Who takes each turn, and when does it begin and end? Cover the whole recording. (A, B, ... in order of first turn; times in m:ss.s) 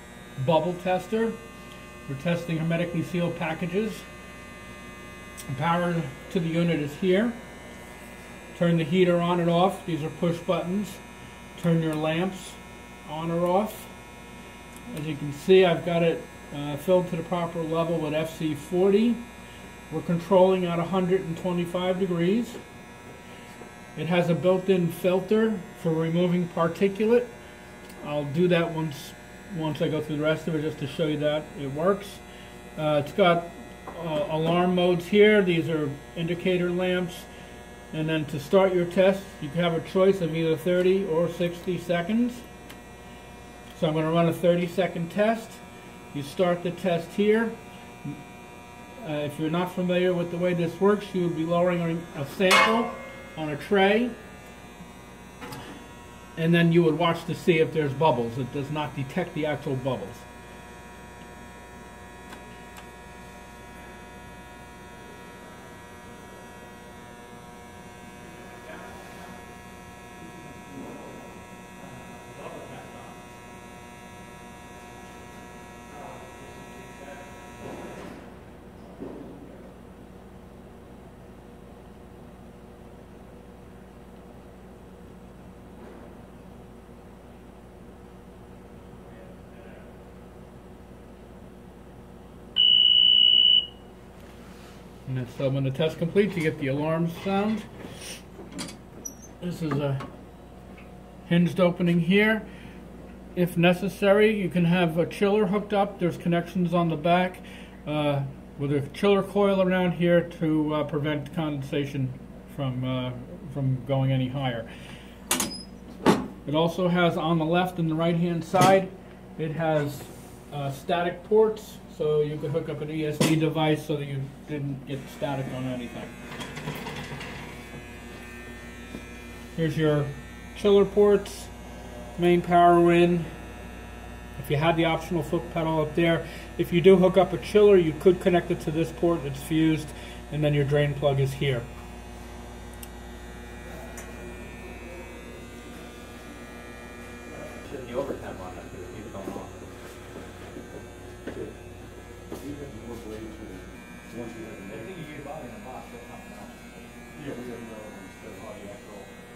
0:00.4-0:01.4 A
0:02.1-0:04.0 A
0:05.5-0:07.4 A
0:08.5-0:11.0 A
0:11.6-0:13.9 A
0:14.9-0:19.2 A
0:19.9-0:22.6 A
0:24.0-0:27.3 A
0:28.0-0:32.2 A
0:32.8-0:37.3 A
0:37.9-0:42.4 A
0:43.7-0:48.2 A
0:49.0-0:54.2 A
0:56.4-1:00.3 A
1:12.1-1:13.2 B
1:35.1-1:37.7 A
1:39.4-1:40.0 A
1:41.3-1:42.5 A
1:43.4-1:54.7 A
1:56.4-2:06.2 A
2:09.6-2:11.5 A
2:12.2-2:13.3 A
2:14.4-2:21.7 A
2:27.6-2:29.6 B
2:31.3-2:31.5 C
2:32.4-2:35.1 C
2:34.7-2:37.2 B
2:37.1-2:38.8 C
2:38.4-2:39.1 B